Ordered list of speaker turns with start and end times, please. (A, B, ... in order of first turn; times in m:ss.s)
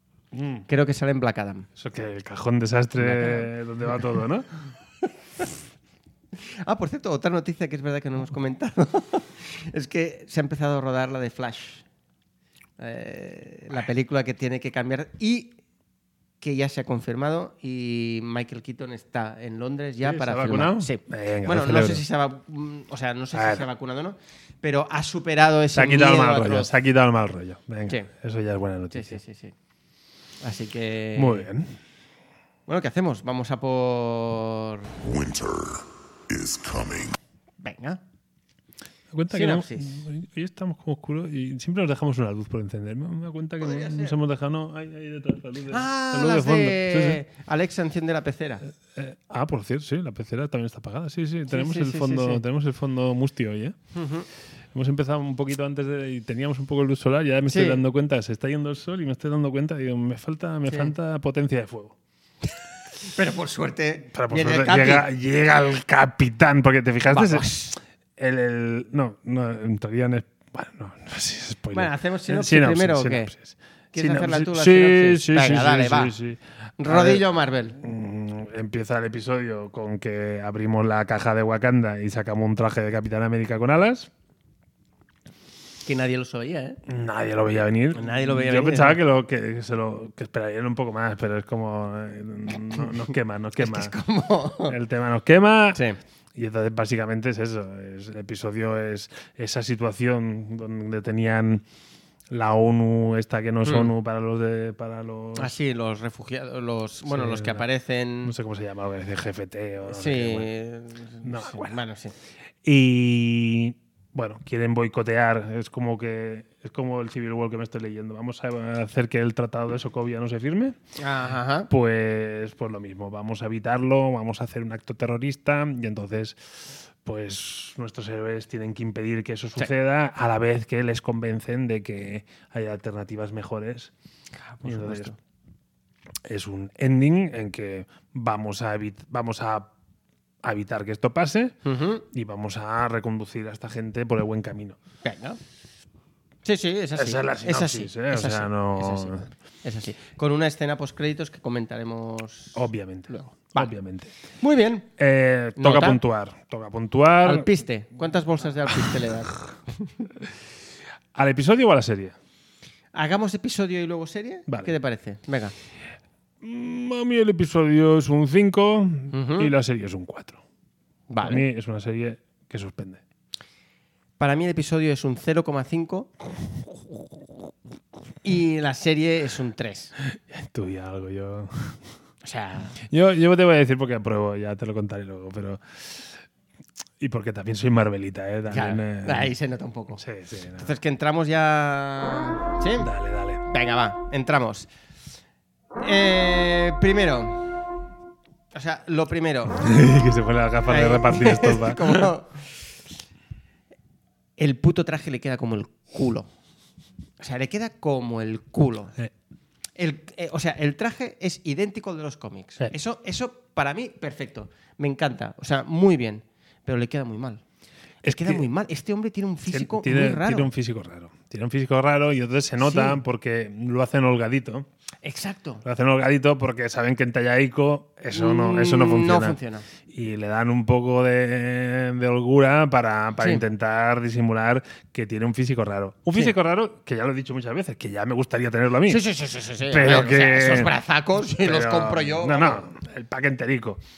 0:00.3-0:00.7 A
0:00.7-0:01.7 B
0:01.8-0:04.5 A
0:03.0-0:03.5 B
0:06.4-0:11.8 B
0:12.8-0:15.6 B
0:16.4-0:26.7 B
0:20.0-0:22.0 A
0:23.3-0:23.7 A
0:25.7-0:29.2 A
0:28.9-0:29.5 B
0:30.4-0:31.5 B
0:31.2-0:31.8 A
0:32.7-0:35.0 B
0:35.0-0:37.2 C
0:37.6-0:38.0 B
0:39.1-0:47.2 A
0:39.3-0:40.0 B
0:43.6-0:44.2 B
0:45.7-0:48.7 B
0:48.9-0:53.8 A
0:51.5-0:52.4 B
0:53.9-0:54.3 B
0:54.7-1:02.0 A
0:57.5-0:57.8 B
1:00.7-1:00.9 B
1:03.0-1:05.1 B
1:04.1-1:07.5 A
1:07.1-1:07.8 B
1:08.2-1:17.2 A
1:11.7-1:13.3 B
1:13.9-1:16.2 B
1:16.8-1:17.8 B
1:17.8-1:24.1 A
1:25.8-1:26.8 B
1:26.9-1:33.9 A
1:27.9-1:29.0 B
1:33.6-1:34.8 B
1:34.7-1:35.8 A
1:36.4-1:41.6 A
1:42.3-1:45.5 A
1:43.6-1:43.9 B
1:45.4-1:48.3 B
1:47.1-1:47.6 A
1:48.2-1:50.5 A
1:49.8-1:52.2 B
1:51.2-1:51.8 A
1:52.6-2:00.8 A
2:01.0-2:01.7 B
2:01.7-2:13.9 A
2:14.4-2:15.2 B
2:14.6-2:15.1 A
2:16.2-2:19.7 A
2:20.4-2:21.6 A
2:21.6-2:22.0 B
2:22.1-2:24.8 A
2:25.0-2:25.4 B
2:26.4-2:33.7 B
2:27.0-2:29.3 A
2:32.6-2:34.1 A
2:34.4-2:34.9 B
2:35.0-2:37.5 A
2:35.6-2:36.0 B
2:37.2-2:40.1 B
2:41.1-2:42.2 A
2:42.9-2:45.5 B
2:44.5-2:44.8 A
2:46.4-2:50.4 A
2:49.1-2:49.5 B
2:51.1-2:51.4 B
2:51.2-2:53.0 A
2:54.2-2:56.1 B
2:58.2-2:59.9 B
3:00.1-3:01.8 A
3:02.2-3:02.8 B
3:02.8-3:06.2 A
3:07.0-3:09.3 A
3:08.5-3:10.0 B
3:10.0-3:10.7 A
3:10.6-3:12.9 B
3:12.8-3:13.4 A
3:13.5-3:14.7 B
3:15.8-3:17.6 B
3:18.5-3:19.6 B
3:19.5-3:22.1 A
3:20.7-3:22.7 B
3:24.4-3:26.3 B
3:27.2-3:29.0 B
3:29.8-3:37.4 B
3:38.0-3:38.5 A
3:38.0-3:40.5 B
3:39.5-3:44.7 A
3:42.6-3:43.0 B
3:45.0-3:45.6 B
3:45.6-3:59.0 A
3:48.1-3:49.7 B
3:58.9-4:02.7 B
3:59.7-4:00.7 A
4:01.4-4:03.8 A